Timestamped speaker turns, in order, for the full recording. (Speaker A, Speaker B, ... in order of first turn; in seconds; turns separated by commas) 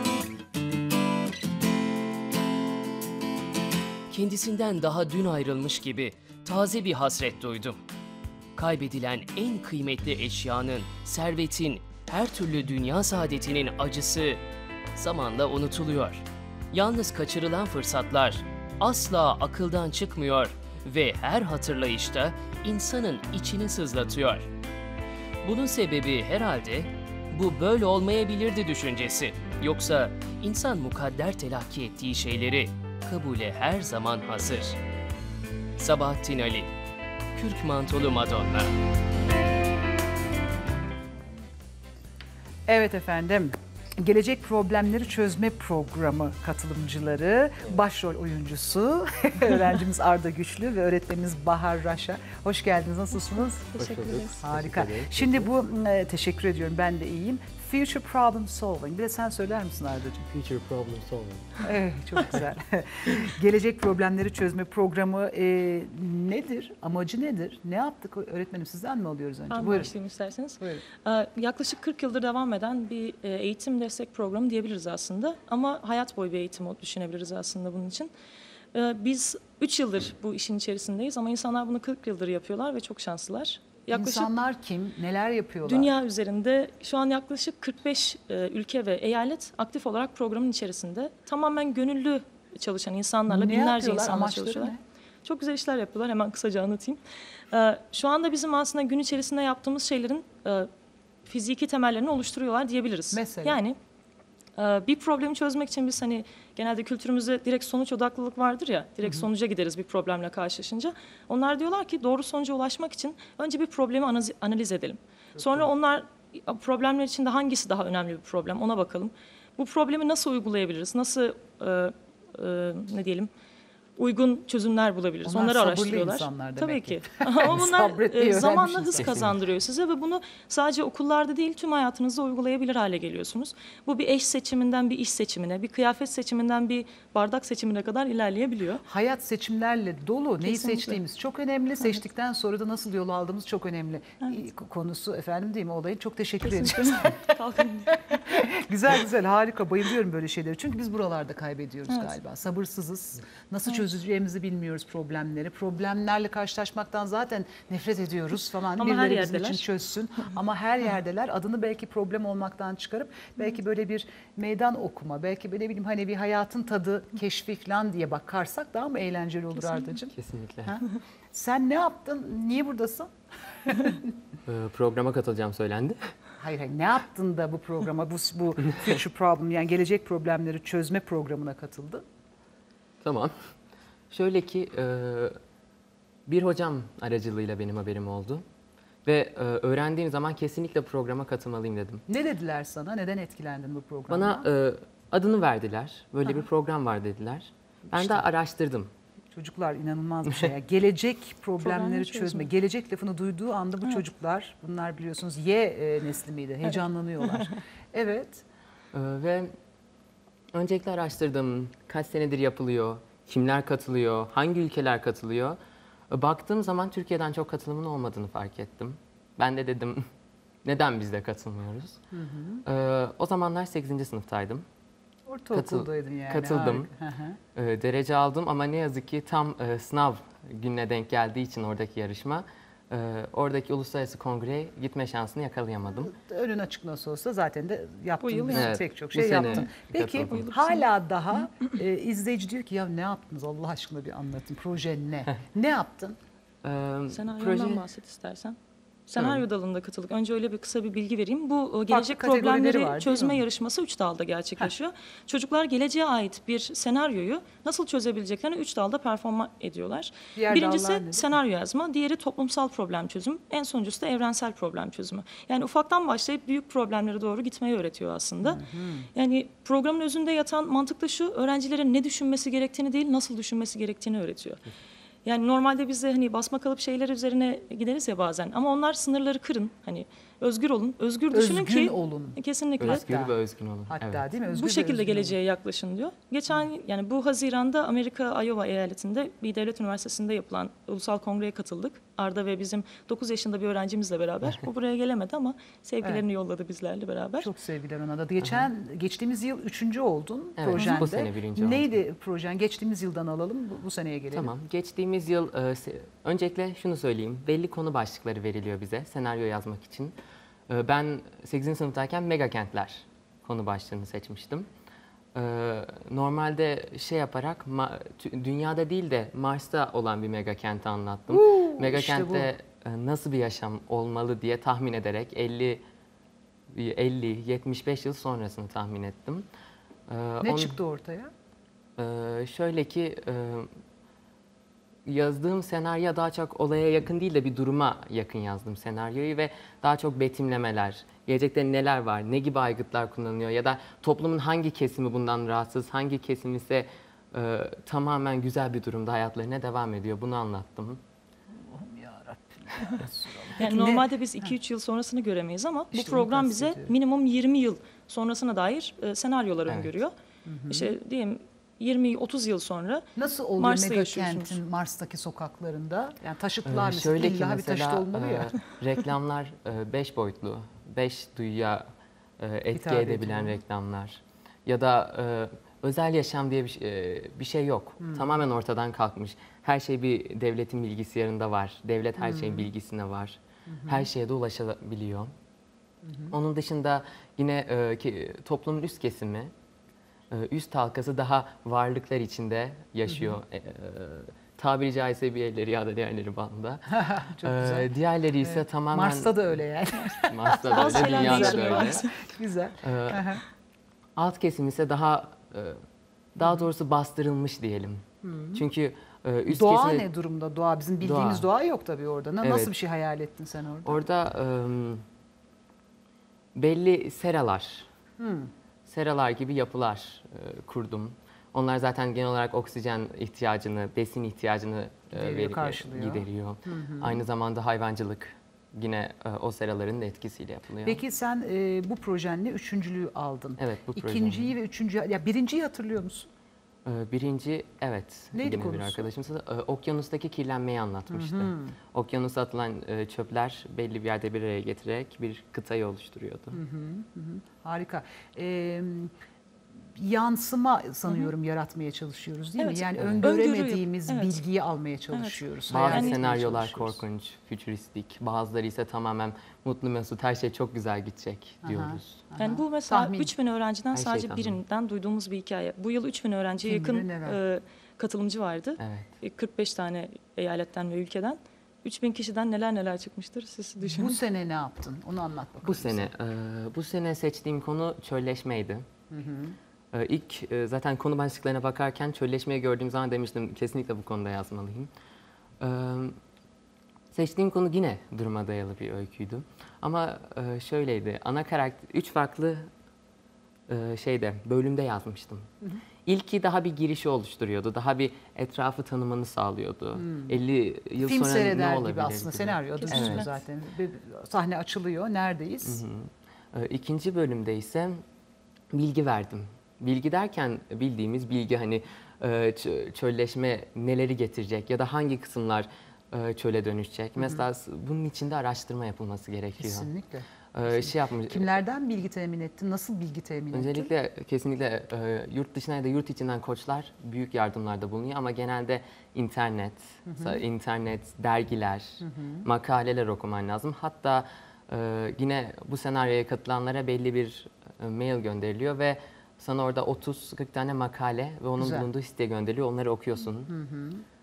Speaker A: 4.1-7.8, Speaker A: 8.6-14.4, Speaker A: 14.9-24.5, Speaker A: 25.4-34.8, Speaker A: 35.8-36.7, Speaker A: 37.4-38.7, Speaker B: 42.7-53.7, Speaker C: 53.7-54.4, Speaker D: 53.8-55.5, Speaker B: 54.4-60.2, Speaker D: 60.3-61.5, Speaker B: 61.6-70.0, Speaker C: 69.5-78.1, Speaker C: 78.7-84.3, Speaker B: 83.9-85.9, Speaker C: 85.7-100.7, Speaker B: 93.3-94.8, Speaker C: 101.3-103.8, Speaker B: 103.1-103.6, Speaker C: 104.6-123.3, Speaker B: 109.0-109.3, Speaker B: 115.3-115.7, Speaker C: 124.0-138.8, Speaker B: 125.2-129.3, Speaker D: 129.0-129.3, Speaker B: 138.9-147.3, Speaker C: 140.4-141.0, Speaker C: 146.4-148.1, Speaker B: 147.9-170.1, Speaker C: 151.9-152.2, Speaker C: 158.8-159.7, Speaker D: 170.2-170.8, Speaker B: 170.7-173.1, Speaker B: 173.7-174.1, Speaker D: 174.5-176.0, Speaker B: 176.4-182.0, Speaker D: 183.0-183.3, Speaker D: 184.1-185.4, Speaker D: 186.3-188.4, Speaker D: 189.1-192.0, Speaker B: 192.1-194.5, Speaker D: 194.1-198.9, Speaker B: 197.9-198.3, Speaker B: 199.3-208.4, Speaker C: 201.6-202.5, Speaker D: 208.9-209.5, Speaker D: 210.5-215.6, Speaker D: 216.1-220.0, Speaker D: 220.7-222.0, Speaker B: 222.1-222.6, Speaker D: 222.7-224.7, Speaker B: 225.3-227.4, Speaker D: 225.5-226.9, Speaker D: 227.6-236.1, Speaker B: 235.9-246.2, Speaker C: 238.2-238.8, Speaker D: 238.5-240.4, Speaker C: 239.5-240.9, Speaker D: 246.6-247.8, Speaker C: 247.1-268.6, Speaker D: 249.2-249.4, Speaker B: 251.9-253.4, Speaker B: 260.4-261.3, Speaker B: 268.4-269.1, Speaker C: 269.1-274.6, Speaker C: 275.2-283.1, Speaker B: 281.3-285.4, Speaker D: 282.8-284.3, Speaker C: 284.5-297.5, Speaker B: 297.4-304.5, Speaker D: 298.4-298.7, Speaker D: 300.6-302.0, Speaker C: 300.8-301.1, Speaker D: 304.3-310.2, Speaker D: 310.7-314.7, Speaker D: 315.4-325.8, Speaker B: 321.3-322.5, Speaker D: 326.7-329.5, Speaker D: 330.1-330.8, Speaker B: 330.4-331.3, Speaker D: 332.0-333.7, Speaker D: 335.1-351.0, Speaker B: 351.5-354.5, Speaker C: 353.6-360.1, Speaker B: 355.9-356.9, Speaker D: 359.7-359.9, Speaker B: 360.4-360.9, Speaker C: 360.7-363.1, Speaker B: 363.2-368.6, Speaker C: 363.6-364.6, Speaker D: 366.7-371.9, Speaker D: 372.4-385.3, Speaker B: 372.7-373.6, Speaker B: 378.0-378.4, Speaker B: 382.2-382.7, Speaker B: 383.7-384.1, Speaker B: 386.1-386.3, Speaker D: 386.3-389.5, Speaker D: 390.3-399.6, Speaker B: 393.1-393.3, Speaker B: 396.9-397.9, Speaker B: 398.4-403.4, Speaker D: 400.3-402.0, Speaker C: 400.7-402.1, Speaker D: 402.8-403.4, Speaker D: 404.2-405.8, Speaker D: 406.4-410.1, Speaker B: 408.2-408.6, Speaker B: 409.5-414.0, Speaker D: 411.0-411.5, Speaker D: 412.4-412.7, Speaker D: 413.9-415.0, Speaker D: 416.6-417.9, Speaker B: 418.2-418.5, Speaker D: 418.9-431.0, Speaker B: 425.1-427.2, Speaker B: 430.9-436.3, Speaker D: 433.6-434.6, Speaker D: 436.9-446.6, Speaker B: 438.3-439.1, Speaker B: 441.1-441.8, Speaker B: 446.5-449.1, Speaker B: 450.0-457.0, Speaker C: 452.6-454.4, Speaker D: 453.0-453.3, Speaker C: 455.1-456.2, Speaker D: 455.7-462.1, Speaker B: 461.6-463.3, Speaker C: 462.4-474.2, Speaker D: 463.9-464.6, Speaker B: 466.6-467.4, Speaker D: 468.8-469.1, Speaker B: 473.8-476.1, Speaker D: 475.6-478.9, Speaker B: 479.1-479.6, Speaker D: 479.9-484.9, Speaker D: 485.6-486.2, Speaker D: 487.1-492.7, Speaker D: 493.7-495.5, Speaker D: 496.1-503.3, Speaker B: 500.0-500.4, Speaker B: 501.0-505.8, Speaker C: 502.8-503.3, Speaker D: 505.6-508.0, Speaker D: 508.7-519.9, Speaker B: 517.2-517.5, Speaker B: 519.6-523.9, Speaker D: 520.5-521.6, Speaker D: 523.5-543.5, Speaker B: 530.1-530.4, Speaker B: 532.0-532.5, Speaker B: 541.6-541.9, Speaker B: 543.5-544.0